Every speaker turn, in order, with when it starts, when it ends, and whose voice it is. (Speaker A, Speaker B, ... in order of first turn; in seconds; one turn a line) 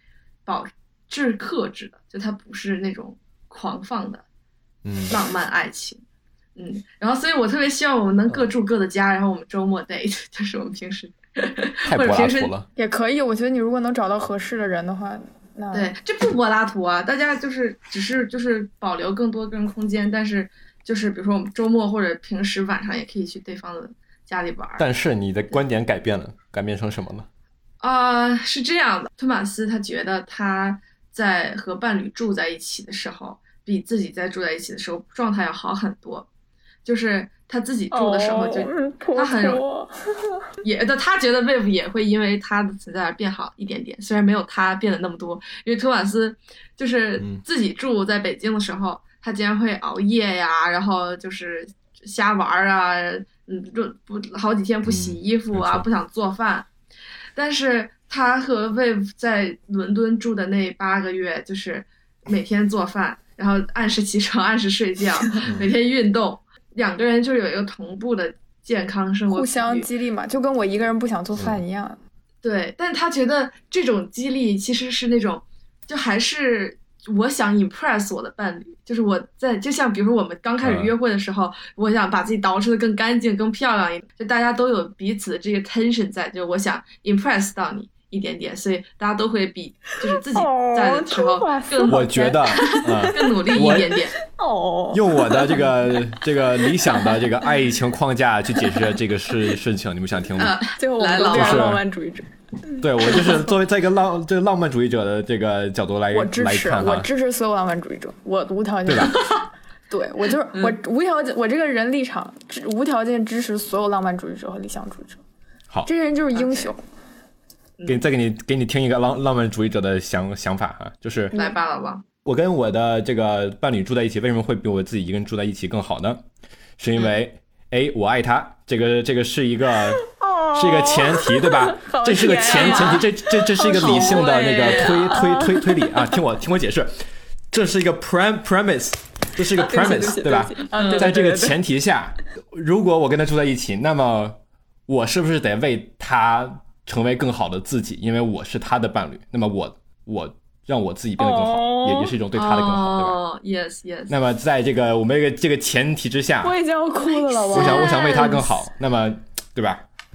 Speaker A: 0.5-4.2
Speaker B: 4.8-5.2
Speaker A: 5.1-6.0
Speaker A: 6.6-12.5
Speaker B: 11.9-12.7
Speaker C: 12.8-15.9
Speaker A: 15.7-24.9
Speaker B: 24.8-27.3
Speaker A: 27.8-36.3
Speaker A: 36.9-39.6
Speaker C: 37.9-40.4
Speaker A: 40.6-56.7
Speaker B: 54.9-55.9
Speaker A: 57.4-69.9
Speaker B: 65.5-65.7
Speaker C: 69.3-72.0
Speaker A: 72.4-94.2
Speaker B: 80.6-80.9
Speaker C: 90.1-93.3
Speaker B: 91.9-94.0
Speaker C: 94.2-97.2
Speaker B: 94.9-100.6
Speaker A: 100.4-101.8
Speaker C: 100.8-103.5
Speaker B: 101.3-101.8
Speaker B: 102.8-107.1
Speaker C: 106.1-109.4
Speaker B: 108.9-109.2
Speaker C: 109.9-115.2
Speaker C: 115.9-116.8
Speaker A: 116.3-116.7
Speaker A: 117.8-118.0
Speaker B: 117.9-121.3
Speaker A: 121.3-122.0
Speaker B: 122.2-126.2
Speaker B: 126.8-137.0
Speaker C: 130.0-136.2
Speaker A: 132.5-133.0
Speaker A: 133.8-135.1
Speaker B: 137.5-153.2
Speaker C: 139.5-141.6
Speaker A: 140.8-141.1
Speaker C: 151.2-152.1
Speaker A: 152.3-154.2
Speaker B: 154.1-156.6
Speaker C: 156.4-158.5
Speaker A: 157.1-158.5
Speaker B: 157.5-159.8